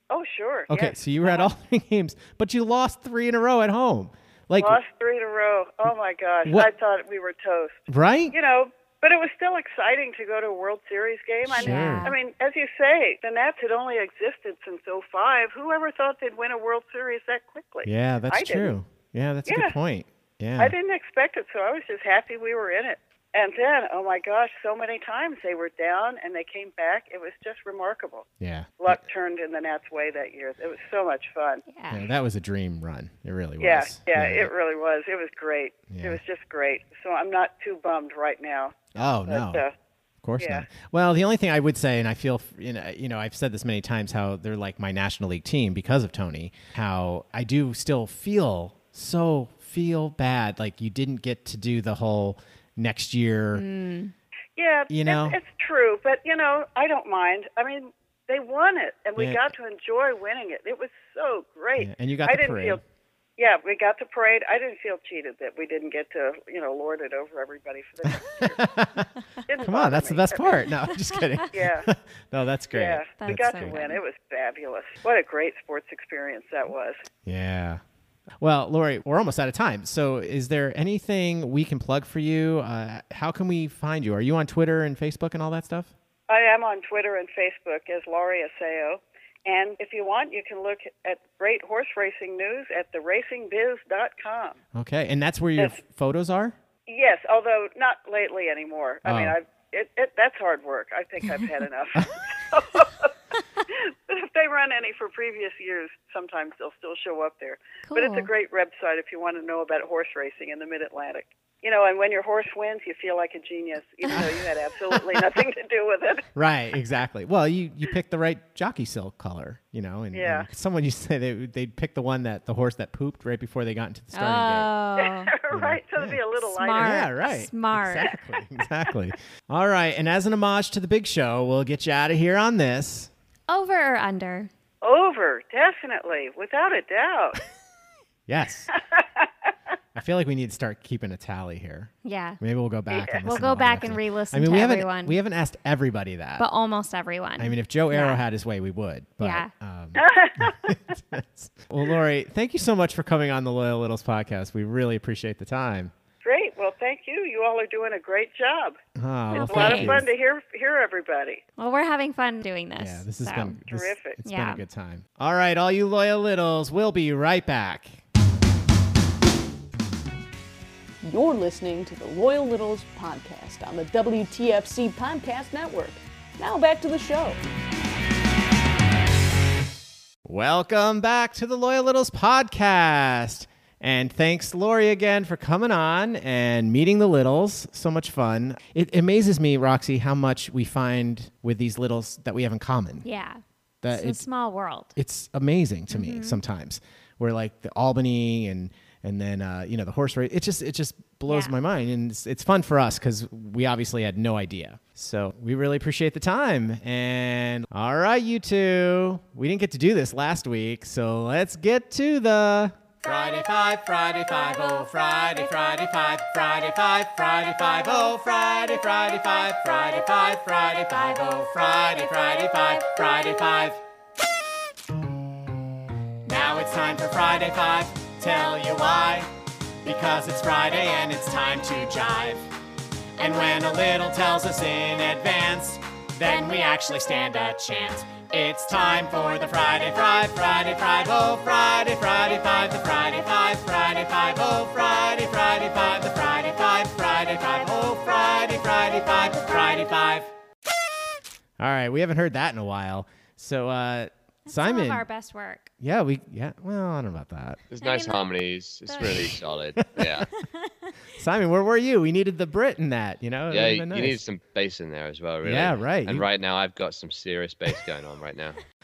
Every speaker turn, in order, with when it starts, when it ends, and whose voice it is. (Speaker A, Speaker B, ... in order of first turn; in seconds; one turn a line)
Speaker A: 0.1-1.5
Speaker B: 0.7-4.8
Speaker A: 4.6-18.7
Speaker B: 6.4-6.7
Speaker B: 7.9-8.3
Speaker B: 11.4-12.1
Speaker C: 11.5-12.1
Speaker B: 17.8-20.7
Speaker A: 19.5-19.7
Speaker A: 20.6-28.3
Speaker B: 28.4-29.0
Speaker A: 28.8-31.6
Speaker C: 31.7-32.0
Speaker B: 31.9-34.5
Speaker A: 33.6-39.7
Speaker B: 35.9-36.2
Speaker B: 38.9-39.6
Speaker B: 40.2-53.6
Speaker A: 40.4-40.6
Speaker C: 53.5-54.1
Speaker A: 54.5-62.8
Speaker B: 54.9-55.4
Speaker B: 59.2-59.4
Speaker B: 61.8-62.8
Speaker A: 63.4-68.6
Speaker B: 68.1-69.1
Speaker A: 69.5-70.6
Speaker B: 69.6-73.8
Speaker C: 71.1-71.4
Speaker A: 71.5-71.9
Speaker A: 72.7-77.0
Speaker C: 73.2-74.0
Speaker B: 77.2-77.8
Speaker B: 78.4-85.9
Speaker A: 86.3-94.6
Speaker B: 94.7-96.5
Speaker A: 96.9-103.1
Speaker B: 99.0-99.3
Speaker A: 103.7-116.2
Speaker C: 107.8-108.3
Speaker B: 114.1-114.4
Speaker B: 116.3-124.7
Speaker A: 120.1-120.5
Speaker C: 124.1-125.3
Speaker A: 125.0-127.0
Speaker B: 125.5-126.2
Speaker C: 126.5-128.1
Speaker B: 126.7-133.1
Speaker C: 133.5-134.5
Speaker A: 134.8-137.4
Speaker B: 138.3-138.7
Speaker A: 138.7-139.3
Speaker B: 139.9-146.4
Speaker C: 142.0-142.4
Speaker A: 142.9-143.2
Speaker C: 143.2-145.2
Speaker C: 146.4-148.2
Speaker B: 147.4-155.9
Speaker C: 149.2-149.5
Speaker A: 149.9-150.8
Speaker A: 156.2-158.8
Speaker B: 158.9-160.1
Speaker C: 159.3-160.0
Speaker A: 159.4-161.4
Speaker C: 161.6-163.6
Speaker B: 162.8-168.0
Speaker A: 163.7-164.2
Speaker C: 164.2-164.6
Speaker D: 171.0-177.4
Speaker B: 180.2-193.1
Speaker C: 193.0-194.9
Speaker B: 193.8-194.2
Speaker B: 194.9-223.8
Speaker C: 195.9-196.4
Speaker C: 201.3-201.5
Speaker C: 213.0-213.4
Speaker C: 214.2-215.5
Speaker C: 220.9-223.3
Speaker B: 226.2-229.3
Speaker B: 229.8-232.5
Speaker B: 233.2-250.3
Speaker C: 233.2-233.6
Speaker C: 236.3-237.6
Speaker B: 251.6-255.1
Speaker C: 254.5-255.7
Speaker B: 255.8-257.6
Speaker E: 257.7-260.3
Speaker C: 257.8-258.2
Speaker C: 258.9-259.4
Speaker B: 259.0-260.3
Speaker C: 260.4-260.9
Speaker B: 261.2-264.2
Speaker E: 263.5-268.6
Speaker B: 265.4-266.2